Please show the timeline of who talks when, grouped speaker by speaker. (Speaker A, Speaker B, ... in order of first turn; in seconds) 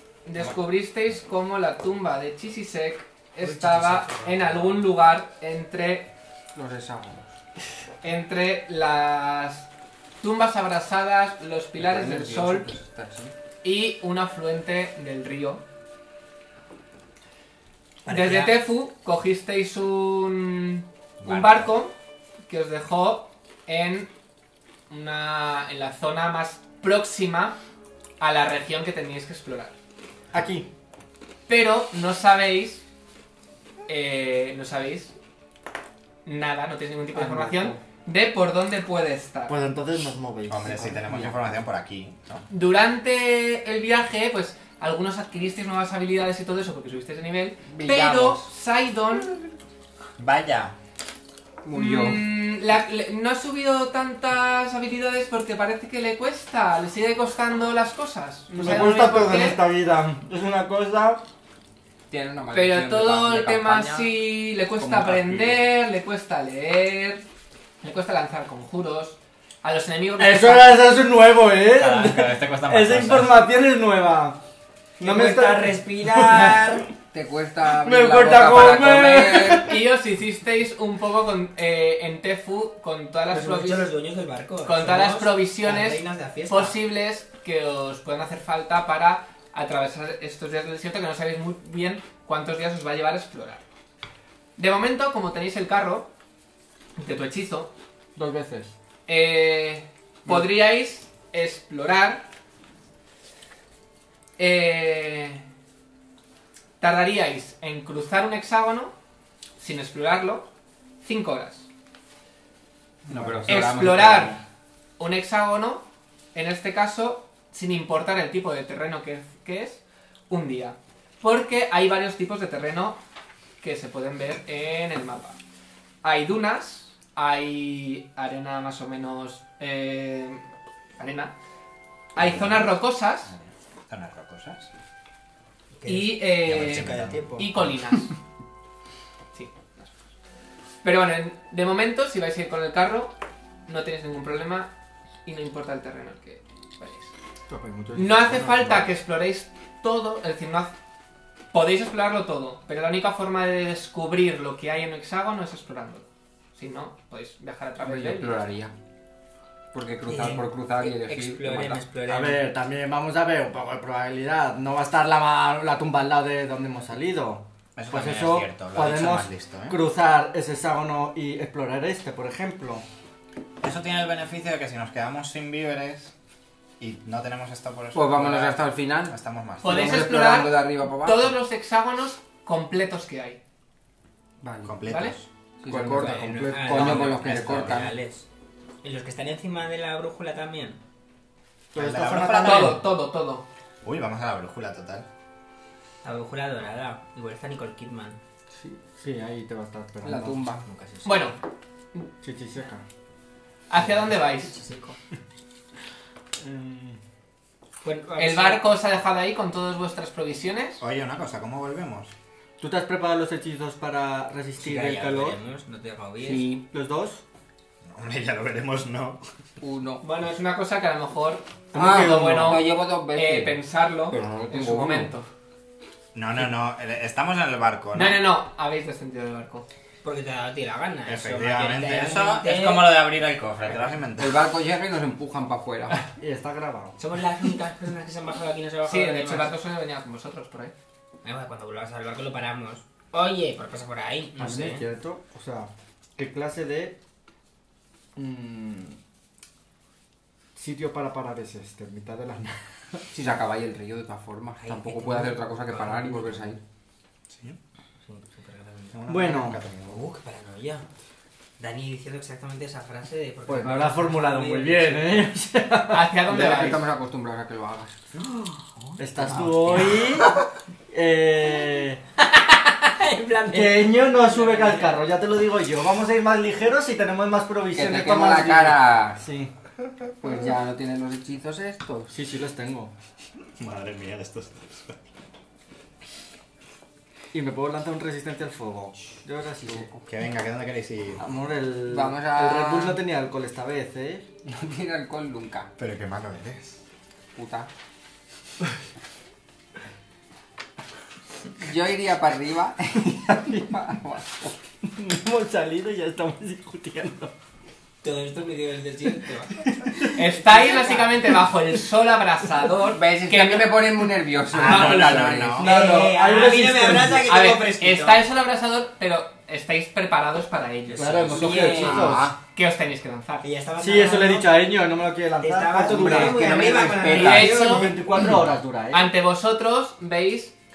Speaker A: 0.2-6.1, 8.0-9.7, 10.2-12.7, 13.6-15.6, 18.1-21.9, 22.5-24.1, 24.9-27.6, 28.2-29.8, 31.5-32.8, 33.9-35.1, 36.2-39.5, 42.5-49.4, 51.7-59.6, 62.5-67.2, 67.8-70.8, 79.6-83.9, 84.6-93.7, 94.6-96.1, 97.0-97.7, 99.1-102.3, 104.4-105.4, 106.8-108.9, 109.6-110.5, 111.0-111.7, 113.5-114.4, 115.0-123.0, 123.6-125.4, 126.0-130.4, 131.0-131.3, 132.2-133.3, 135.8-138.2, 139.3-140.0, 140.8-144.7, 145.2-147.1, 147.9-150.7, 151.5-158.5, 179.6-183.4, 184.9-185.2, 192.3-193.4, 201.0-201.4, 203.7-204.6, 208.2-210.8, 220.0-225.3, 227.9-229.7, 238.9-240.7, 265.9-266.8, 310.0-313.8, 314.7-315.3, 317.2-321.5, 322.0-323.4, 327.1-327.9, 328.9-330.6
Speaker B: 3.4-4.8, 18.0-18.6, 75.0-76.9, 83.3-86.8, 135.8-137.5, 160.1-162.5, 185.9-188.3, 188.8-190.8, 196.0-198.2, 200.7-201.3, 203.8-205.0, 207.8-208.7, 214.6-216.5, 230.0-233.0, 237.0-239.6, 241.2-244.8, 254.6-256.5, 258.0-259.2, 259.9-260.9, 261.6-265.3, 268.2-270.4, 272.2-274.7, 308.0-311.1, 315.6-318.2, 320.9-322.1, 323.4-324.6, 325.4-328.0
Speaker C: 6.5-7.4, 11.8-13.3, 37.1-37.8, 47.7-48.5, 51.6-52.2, 62.1-64.2, 64.9-65.4, 77.1-79.7, 113.1-114.4, 157.8-158.7, 159.7-161.8, 177.9-181.3, 184.4-184.8, 185.6-187.9, 200.0-200.7, 216.2-216.6, 219.6-220.0, 221.8-225.1, 234.2-236.0, 253.1-256.6, 266.3-267.9, 277.7-279.2, 280.2-282.1, 289.6-290.1, 291.8-293.0, 294.4-295.7, 297.3-297.7, 301.6-304.6, 312.9-315.7, 321.1-322.4, 325.8-327.8
Speaker D: 21.2-21.7, 40.5-42.5, 50.2-50.8, 71.7-73.4, 132.2-134.7, 136.4-137.7, 167.8-169.8, 173.6-176.1, 176.8-180.0, 184.7-185.3, 186.7-187.9, 191.8-193.0, 193.8-195.1, 210.8-212.1, 217.9-219.2, 226.1-228.2, 231.1-234.4, 257.3-257.6, 258.9-260.1, 283.6-285.0, 290.1-291.2, 295.8-296.8, 314.5-315.7
Speaker E: 30.3-30.7, 39.5-41.5, 58.5-61.2, 70.2-74.4, 75.0-76.8, 77.8-79.8, 98.2-98.8, 113.1-113.7, 147.5-148.9, 162.1-172.8, 185.7-186.8, 191.7-192.8, 198.8-200.8, 202.2-202.8, 206.4-207.0, 212.6-215.4, 216.7-217.2, 221.7-222.6, 236.2-237.0, 244.4-247.0, 248.2-249.0, 250.6-253.0, 259.1-259.6, 263.5-266.8, 269.0-270.3, 270.9-272.0, 273.5-279.5, 282.1-282.9, 287.3-289.9, 291.2-294.2, 304.8-307.3, 309.6-310.1, 315.5-317.3, 321.0-322.3, 323.8-329.1